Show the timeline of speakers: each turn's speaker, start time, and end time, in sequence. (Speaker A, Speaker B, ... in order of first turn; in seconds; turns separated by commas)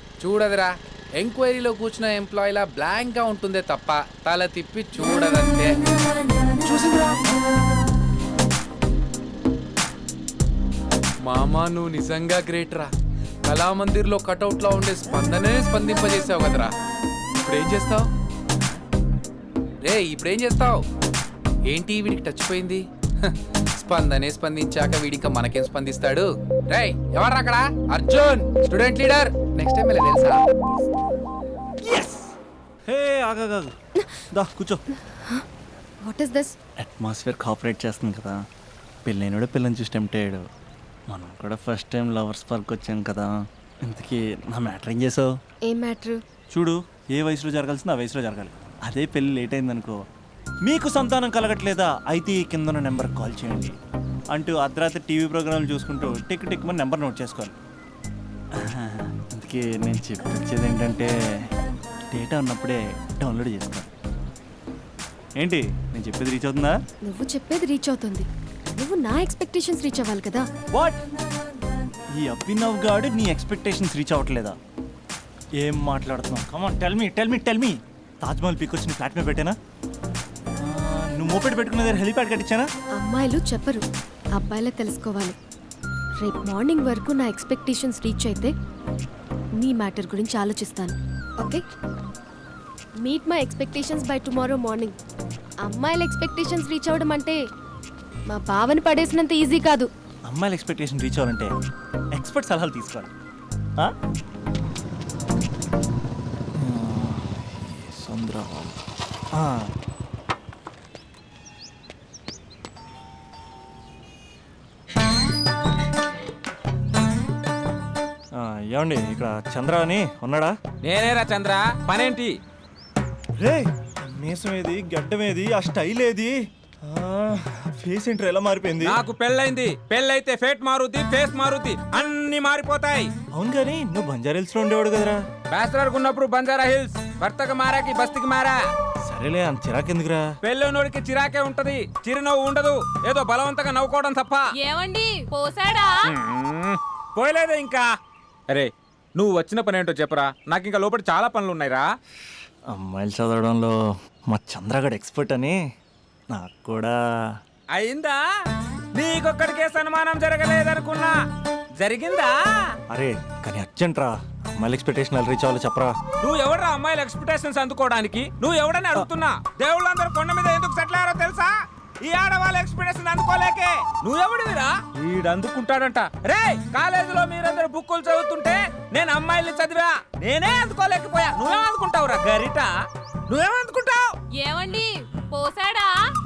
Speaker A: 0.2-5.8, Speaker A: 6.6-7.3, Speaker A: 11.2-12.9, Speaker A: 13.4-16.7, Speaker A: 17.4-18.1, Speaker A: 19.8-20.8, Speaker A: 21.6-30.5, Speaker B: 31.8-32.3, Speaker B: 32.9-33.7, Speaker B: 34.3-34.8, Speaker C: 35.1-35.4, Speaker C: 36.0-36.5, Speaker B: 36.8-38.4, Speaker B: 39.0-40.5, Speaker B: 41.1-45.3, Speaker C: 45.6-46.2, Speaker B: 46.5-50.0, Speaker B: 50.6-53.8, Speaker B: 54.3-57.5, Speaker B: 58.5-61.5, Speaker B: 62.1-63.9, Speaker B: 65.4-66.8, Speaker C: 67.0-70.5, Speaker B: 70.7-71.0, Speaker B: 72.1-74.6, Speaker B: 75.6-79.6, Speaker B: 80.6-82.7, Speaker C: 83.0-85.3, Speaker C: 86.2-88.5, Speaker C: 89.6-91.6, Speaker C: 93.0-95.0, Speaker C: 95.6-97.4, Speaker C: 98.3-99.9, Speaker B: 100.3-101.5, Speaker B: 102.1-103.1, Speaker B: 106.6-108.8, Speaker B: 109.3-109.7, Speaker B: 118.3-120.5, Speaker D: 120.8-122.3, Speaker B: 123.4-129.0, Speaker D: 128.8-133.1, Speaker B: 133.3-135.2, Speaker D: 135.5-138.6, Speaker B: 139.0-140.2, Speaker D: 140.4-144.4, Speaker E: 144.5-146.1, Speaker D: 146.1-147.8, Speaker D: 148.5-151.9, Speaker B: 152.7-153.8, Speaker B: 154.3-155.6, Speaker B: 156.3-157.3, Speaker D: 157.7-158.2, Speaker D: 158.9-161.2, Speaker D: 161.8-162.7, Speaker B: 162.9-165.9, Speaker D: 166.2-171.5, Speaker D: 172.0-182.7, Speaker D: 183.3-184.1, Speaker E: 184.3-186.0